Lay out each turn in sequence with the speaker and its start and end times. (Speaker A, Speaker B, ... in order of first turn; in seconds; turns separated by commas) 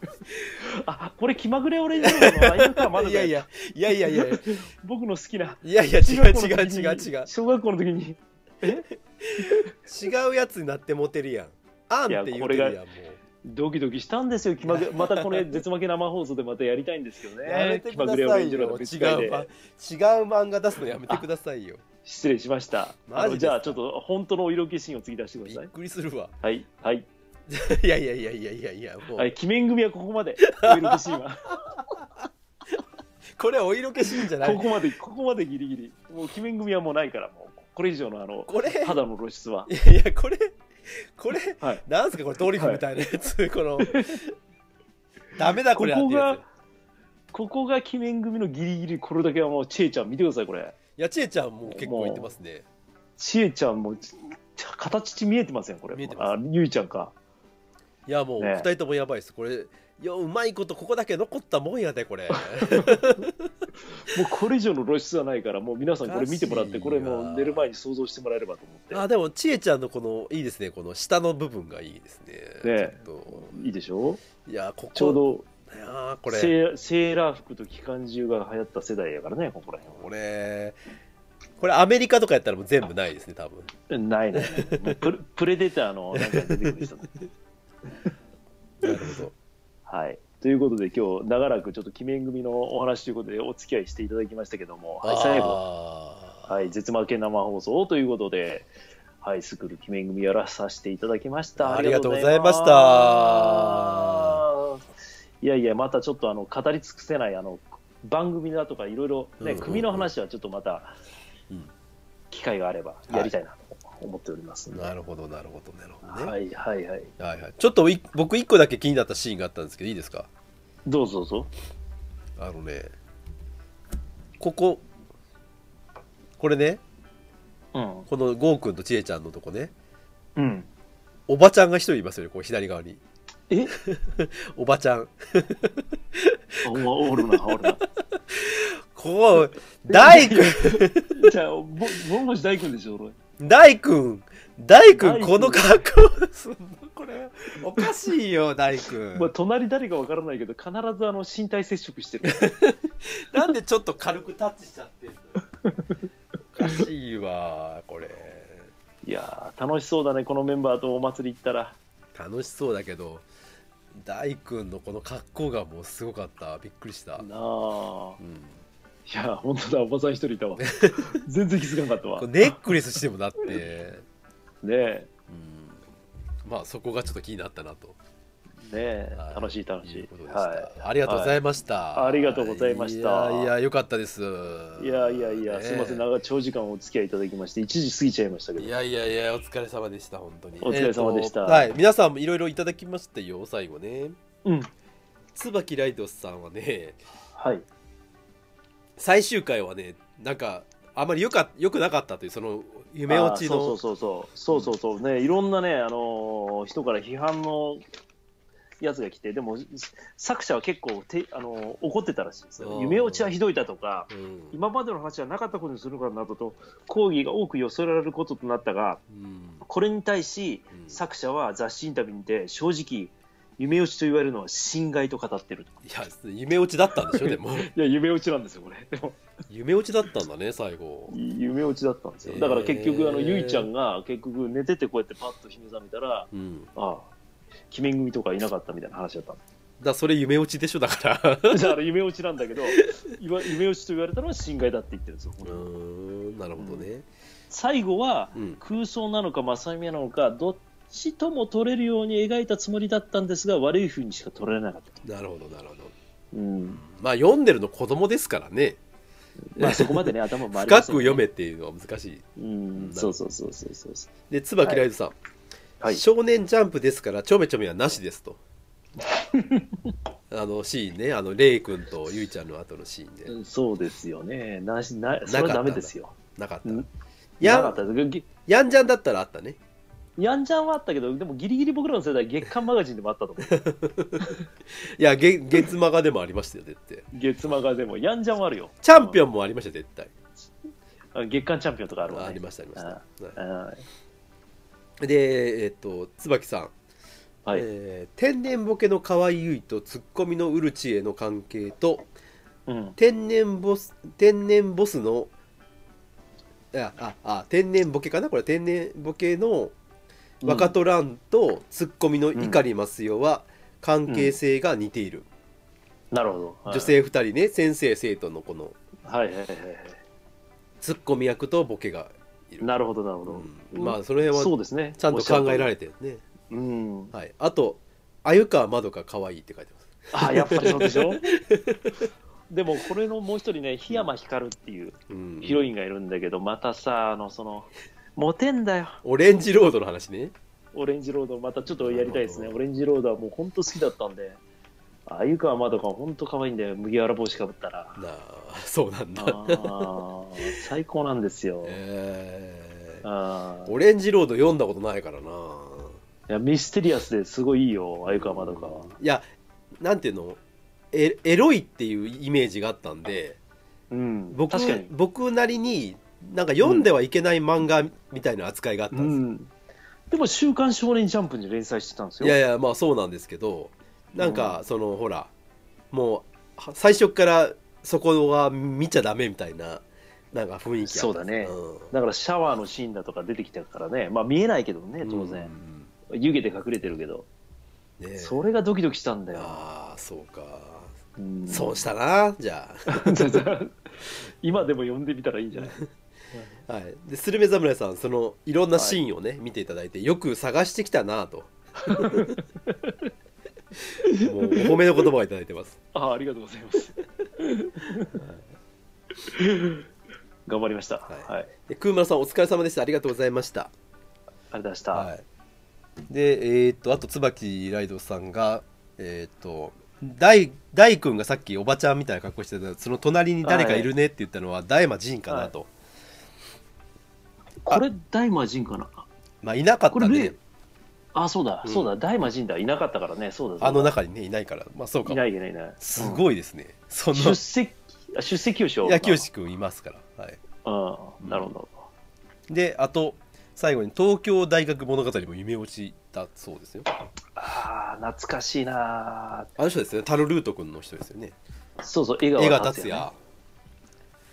Speaker A: 0.6-3.5, Speaker B: 2.0-4.5, Speaker A: 4.0-8.9, Speaker B: 5.6-7.3, Speaker B: 9.2-13.2, Speaker A: 9.4-9.7, Speaker A: 12.1-12.8, Speaker A: 13.4-19.5, Speaker B: 14.7-15.6, Speaker B: 17.4-21.8, Speaker A: 22.1-25.7, Speaker B: 23.1-23.8, Speaker B: 25.4-26.3, Speaker A: 26.4-27.1, Speaker B: 27.5-29.3, Speaker A: 29.1-31.8, Speaker B: 30.5-31.2, Speaker B: 31.8-32.1, Speaker B: 33.4-34.7, Speaker A: 34.1-39.7, Speaker B: 38.5-39.0, Speaker B: 39.7-44.3, Speaker A: 42.5-42.8, Speaker A: 43.8-44.2, Speaker B: 45.4-46.4, Speaker A: 45.7-46.5, Speaker A: 47.3-50.8, Speaker B: 51.0-52.7, Speaker A: 51.7-52.3, Speaker A: 53.2-57.1, Speaker B: 55.9-56.4, Speaker B: 58.1-63.5, Speaker A: 58.4-58.7, Speaker A: 62.3-63.1, Speaker A: 64.0-69.0, Speaker B: 66.0-67.7, Speaker B: 68.9-73.6, Speaker A: 72.6-74.2, Speaker B: 74.4-76.5, Speaker A: 75.0-75.5, Speaker A: 76.3-80.0, Speaker B: 79.9-80.8, Speaker B: 81.6-83.7, Speaker A: 83.9-87.1, Speaker B: 84.4-85.0, Speaker B: 86.2-86.8, Speaker B: 88.8-89.3, Speaker A: 89.9-95.6, Speaker B: 95.0-96.5, Speaker A: 96.5-98.7, Speaker A: 99.2-104.8, Speaker B: 101.6-104.4, Speaker A: 105.4-110.9, Speaker B: 109.4-110.1, Speaker A: 112.3-114.9, Speaker B: 114.7-116.3, Speaker A: 116.0-117.1, Speaker B: 117.2-120.3, Speaker A: 120.9-121.5, Speaker B: 122.4-122.9, Speaker B: 124.4-124.8, Speaker B: 126.4-126.8, Speaker A: 127.7-128.1, Speaker B: 128.1-129.7, Speaker A: 130.4-130.7, Speaker B: 131.3-133.0, Speaker A: 133.5-133.8, Speaker B: 133.8-141.3, Speaker A: 136.6-137.8, Speaker A: 139.9-143.2, Speaker B: 143.4-149.3, Speaker A: 144.9-145.8, Speaker A: 149.1-152.5, Speaker B: 152.3-155.3, Speaker A: 155.7-155.9, Speaker B: 156.6-158.7, Speaker A: 159.0-161.8, Speaker B: 162.2-163.2, Speaker B: 163.9-167.3, Speaker A: 167.2-168.2, Speaker B: 168.2-168.6, Speaker A: 169.1-172.6, Speaker B: 170.6-171.1, Speaker B: 172.2-174.1, Speaker A: 174.6-175.1, Speaker B: 175.3-175.8, Speaker B: 176.4-178.0, Speaker A: 178.7-181.4, Speaker B: 179.2-186.1, Speaker A: 181.9-183.5, Speaker A: 184.8-188.7, Speaker B: 188.6-194.2, Speaker A: 190.6-191.7, Speaker A: 194.4-194.7, Speaker B: 195.3-197.0, Speaker A: 197.3-197.7, Speaker B: 199.0-203.8, Speaker A: 203.1-207.8, Speaker A: 208.8-219.0, Speaker B: 212.6-213.3, Speaker B: 214.1-214.6, Speaker B: 219.1-219.6, Speaker A: 219.6-225.8, Speaker B: 225.8-227.7, Speaker A: 227.0-229.2, Speaker B: 229.5-231.2, Speaker A: 231.1-237.1, Speaker B: 232.2-233.7, Speaker B: 236.3-236.7, Speaker A: 237.7-239.4, Speaker B: 239.8-241.7, Speaker A: 241.5-245.7, Speaker B: 245.4-247.1, Speaker A: 246.6-246.9, Speaker A: 247.5-255.0, Speaker B: 248.3-248.6, Speaker B: 255.0-255.9, Speaker A: 256.3-256.8, Speaker B: 256.7-258.8, Speaker A: 259.6-261.2, Speaker B: 259.6-262.2, Speaker A: 262.4-264.1, Speaker B: 262.8-263.1, Speaker B: 264.3-265.1, Speaker B: 265.9-268.4, Speaker A: 269.1-269.8, Speaker B: 270.3-273.3, Speaker A: 273.3-276.9, Speaker B: 275.3-276.9, Speaker B: 277.4-277.8, Speaker A: 277.4-278.3, Speaker B: 278.4-279.6, Speaker A: 280.2-283.7, Speaker B: 283.5-287.1, Speaker A: 287.1-289.2, Speaker B: 288.8-290.1, Speaker A: 291.1-293.9, Speaker B: 292.1-293.4, Speaker B: 295.0-296.7, Speaker B: 297.5-302.1, Speaker A: 302.7-303.0, Speaker B: 303.0-305.3, Speaker B: 306.7-309.7, Speaker A: 310.4-310.7, Speaker B: 310.4-315.3, Speaker A: 312.4-312.6, Speaker A: 314.1-314.4, Speaker A: 316.1-316.9, Speaker B: 316.7-318.8, Speaker A: 319.1-320.0, Speaker B: 320.8-322.7, Speaker A: 322.6-325.7, Speaker B: 323.3-326.2, Speaker A: 326.5-327.1, Speaker B: 327.1-332.1, Speaker A: 330.1-331.3, Speaker A: 332.5-339.0, Speaker B: 335.1-335.7, Speaker B: 339.0-340.3, Speaker A: 340.7-344.4, Speaker B: 341.8-342.6, Speaker A: 345.1-348.0, Speaker B: 348.0-350.6, Speaker A: 349.2-351.8, Speaker B: 351.6-353.1, Speaker A: 353.0-353.7, Speaker B: 353.7-356.0, Speaker A: 356.3-358.9, Speaker B: 358.1-359.2, Speaker B: 359.8-360.4, Speaker B: 360.9-363.4, Speaker A: 363.9-364.9, Speaker B: 364.3-369.2, Speaker A: 366.6-366.9, Speaker A: 368.9-369.5, Speaker A: 370.1-372.4, Speaker B: 372.2-375.3, Speaker A: 374.2-374.6, Speaker B: 375.9-381.9, Speaker A: 380.8-385.5, Speaker B: 385.0-385.9, Speaker A: 386.1-387.3, Speaker B: 388.0-388.4, Speaker A: 388.2-389.6, Speaker B: 389.4-390.9, Speaker A: 391.2-391.8, Speaker B: 391.5-393.5, Speaker A: 392.9-395.8, Speaker B: 395.6-395.9, Speaker B: 396.7-402.4, Speaker A: 398.8-399.0, Speaker A: 401.8-403.0, Speaker A: 404.0-404.8, Speaker B: 404.1-405.8, Speaker A: 405.9-408.2, Speaker B: 408.1-408.4, Speaker A: 409.2-409.9, Speaker A: 410.5-411.5, Speaker B: 411.1-413.7, Speaker A: 414.5-415.1, Speaker B: 414.9-415.2, Speaker B: 416.1-425.7, Speaker A: 423.4-423.9, Speaker A: 427.7-429.1, Speaker B: 429.4-430.4, Speaker A: 429.9-430.3, Speaker A: 431.1-433.9, Speaker B: 431.6-431.9, Speaker B: 433.6-435.2, Speaker A: 435.1-436.2, Speaker B: 435.8-437.4, Speaker A: 437.1-439.2, Speaker B: 438.8-440.4, Speaker A: 440.6-441.7, Speaker B: 441.2-441.5, Speaker B: 442.5-446.9, Speaker A: 447.4-449.5, Speaker B: 449.6-451.4, Speaker A: 451.8-453.1, Speaker B: 452.4-453.1